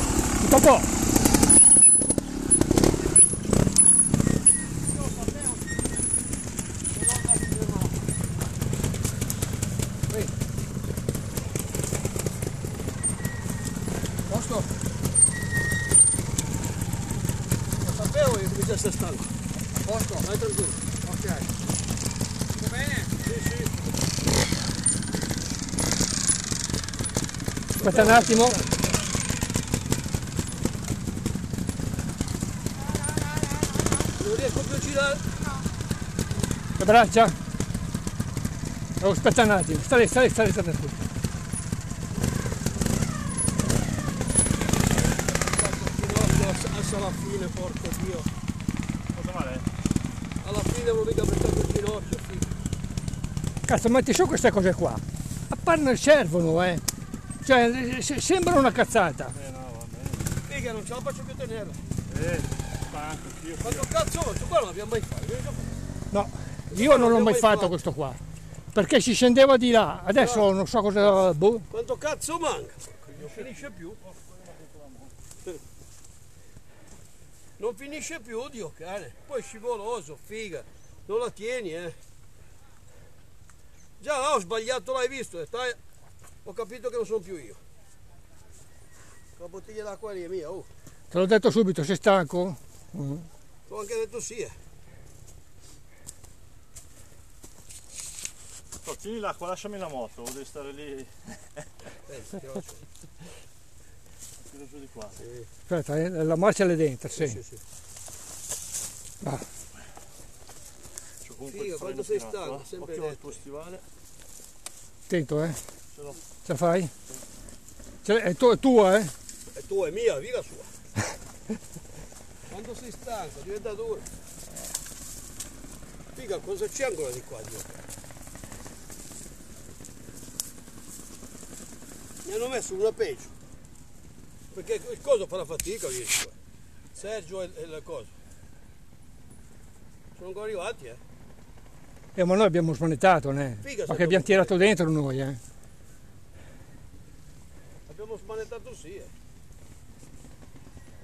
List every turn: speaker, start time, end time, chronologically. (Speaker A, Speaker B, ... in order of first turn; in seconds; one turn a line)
Speaker A: 0.4-0.9
Speaker B: 5.0-5.5
Speaker B: 6.9-8.0
Speaker B: 17.8-21.5
Speaker B: 22.5-23.9
Speaker B: 27.8-28.8
Speaker A: 27.8-28.6
Speaker B: 34.0-35.6
Speaker A: 36.8-37.4
Speaker A: 39.0-41.1
Speaker B: 45.3-48.3
Speaker C: 49.1-49.7
Speaker B: 50.4-52.5
Speaker A: 53.6-56.8
Speaker A: 57.4-59.3
Speaker C: 59.3-60.3
Speaker B: 60.4-61.8
Speaker C: 62.1-63.9
Speaker B: 63.6-65.8
Speaker A: 66.1-68.2
Speaker B: 66.7-67.8
Speaker A: 68.7-71.7
Speaker B: 70.2-70.5
Speaker B: 71.7-74.0
Speaker C: 74.2-75.0
Speaker B: 77.6-82.0
Speaker B: 84.0-85.8
Speaker B: 86.4-87.6
Speaker B: 89.3-90.7
Speaker A: 91.1-93.2
Speaker B: 93.7-94.5
Speaker C: 98.8-101.4
Speaker B: 102.1-102.8
Speaker C: 104.5-105.2
Speaker B: 105.2-105.5
Speaker A: 105.7-107.4
Speaker B: 107.1-107.6
Speaker C: 111.2-113.8
Speaker B: 111.5-113.4
Speaker A: 115.1-115.6
Speaker A: 116.4-116.9
Speaker A: 118.0-119.1
Speaker B: 119.5-120.7
Speaker B: 122.5-124.1
Speaker B: 126.1-127.8
Speaker B: 132.2-133.3
Speaker B: 134.5-136.3
Speaker B: 136.9-138.1
Speaker B: 140.2-141.0
Speaker A: 142.2-145.4
Speaker B: 143.6-144.6
Speaker B: 147.9-149.1